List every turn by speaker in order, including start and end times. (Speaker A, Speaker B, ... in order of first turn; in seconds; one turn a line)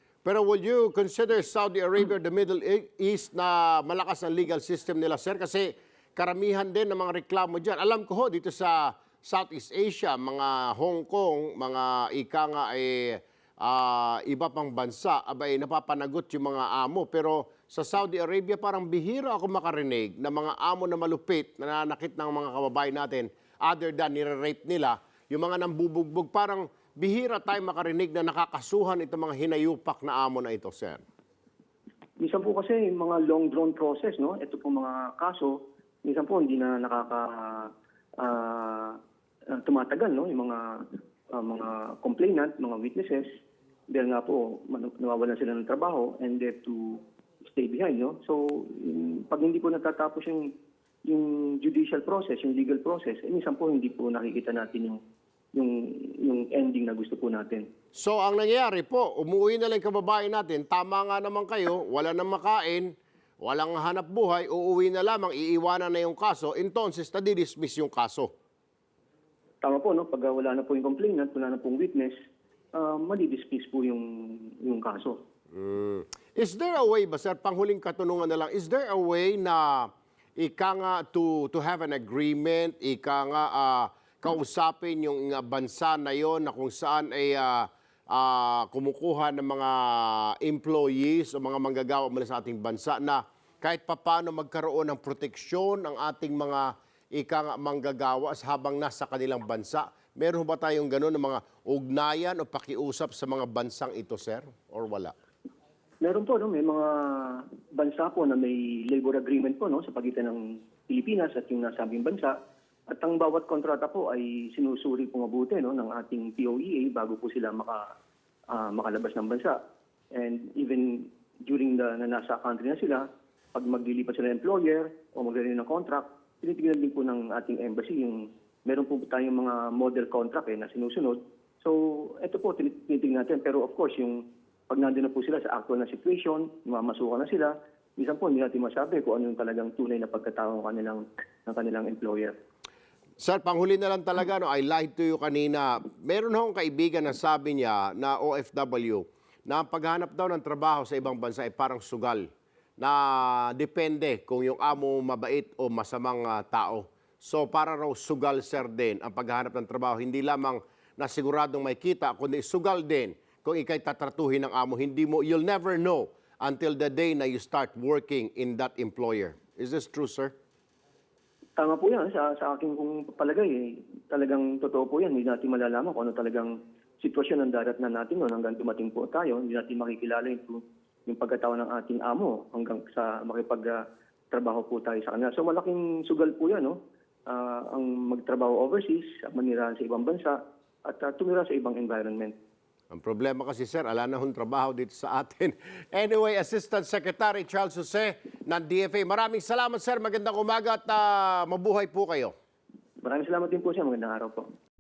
Speaker A: 0.2-31.0
Speaker B: 32.2-39.0
Speaker B: 39.5-40.6
Speaker B: 41.3-43.3
Speaker B: 43.9-50.5
Speaker B: 51.1-55.0
Speaker B: 55.5-57.6
Speaker A: 58.0-68.3
Speaker B: 69.6-72.1
Speaker B: 72.7-75.2
Speaker A: 75.5-105.1
Speaker B: 106.0-112.3
Speaker B: 112.9-117.8
Speaker B: 118.5-119.6
Speaker B: 120.1-142.3
Speaker A: 143.2-152.3
Speaker A: 152.8-170.3
Speaker B: 171.6-183.8
Speaker B: 184.3-192.3
Speaker A: 192.9-202.3
Speaker B: 203.0-204.5